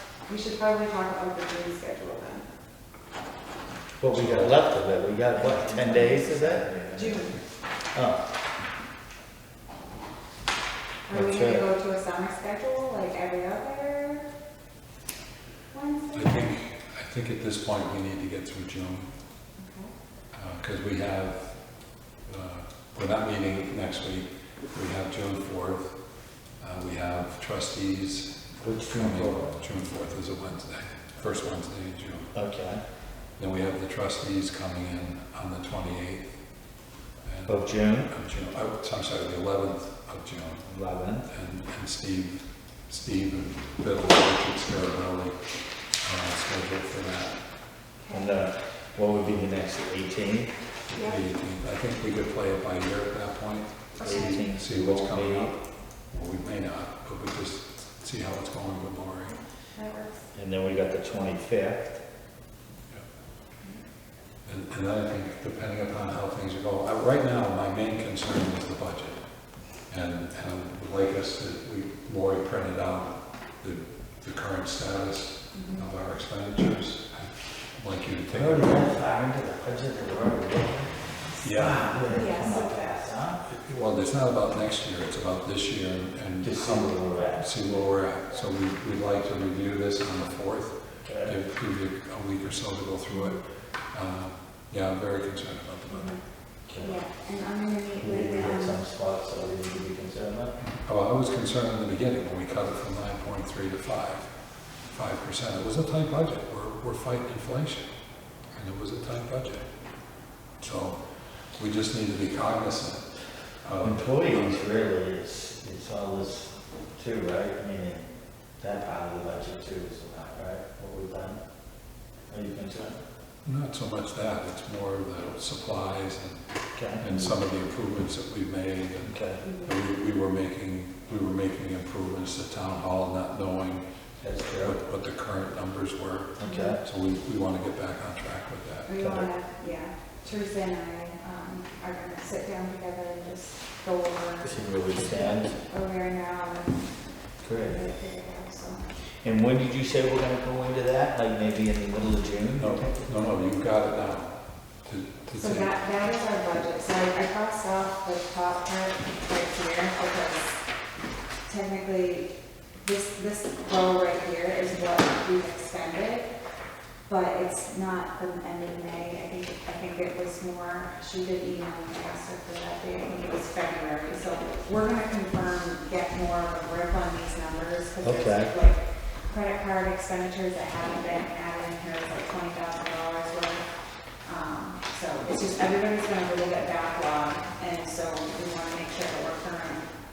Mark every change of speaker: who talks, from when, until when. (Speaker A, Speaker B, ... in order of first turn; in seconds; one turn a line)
Speaker A: 0.3-2.5
Speaker B: 4.0-7.2
Speaker C: 4.1-4.6
Speaker A: 5.8-6.2
Speaker A: 7.0-7.3
Speaker B: 7.9-8.2
Speaker A: 11.1-14.3
Speaker B: 11.1-11.7
Speaker A: 15.7-16.5
Speaker C: 16.1-19.1
Speaker A: 19.6-19.9
Speaker C: 20.3-21.4
Speaker C: 22.3-25.9
Speaker C: 26.6-32.3
Speaker B: 28.6-29.6
Speaker B: 32.3-32.8
Speaker C: 33.4-36.3
Speaker C: 37.2-40.7
Speaker B: 37.5-38.1
Speaker B: 40.7-41.3
Speaker C: 41.3-45.4
Speaker C: 46.0-47.4
Speaker A: 48.0-48.3
Speaker B: 48.1-50.5
Speaker C: 50.9-59.4
Speaker A: 50.9-51.2
Speaker A: 54.0-54.4
Speaker B: 54.0-55.5
Speaker A: 59.8-60.2
Speaker B: 60.3-62.0
Speaker C: 64.5-69.2
Speaker C: 69.9-79.0
Speaker A: 75.5-75.9
Speaker B: 78.3-83.4
Speaker C: 81.4-82.1
Speaker A: 82.1-83.0
Speaker C: 83.5-93.4
Speaker B: 86.4-87.5
Speaker B: 91.0-91.4
Speaker C: 93.9-96.2
Speaker A: 95.9-96.2
Speaker B: 96.7-97.0
Speaker A: 96.8-98.8
Speaker B: 98.0-100.5
Speaker C: 100.6-104.3
Speaker C: 104.9-107.9
Speaker C: 108.5-109.6
Speaker C: 110.6-111.0
Speaker C: 111.6-113.1
Speaker C: 113.6-114.6
Speaker B: 113.8-118.1
Speaker B: 118.6-121.4
Speaker B: 122.3-123.0
Speaker C: 123.5-126.4
Speaker B: 126.8-127.3
Speaker C: 127.0-133.8
Speaker B: 129.1-129.4
Speaker A: 129.4-129.7
Speaker B: 134.2-134.8
Speaker C: 134.6-139.0
Speaker B: 136.4-136.8
Speaker A: 136.4-136.8
Speaker A: 138.9-144.6
Speaker B: 139.0-139.3
Speaker B: 144.4-145.6
Speaker A: 145.6-146.9
Speaker B: 147.4-147.8
Speaker A: 147.6-148.9
Speaker B: 149.2-152.9
Speaker C: 152.5-155.7
Speaker A: 155.4-160.6
Speaker A: 161.5-166.3
Speaker A: 167.1-183.7
Speaker B: 178.0-178.5
Speaker A: 184.2-189.9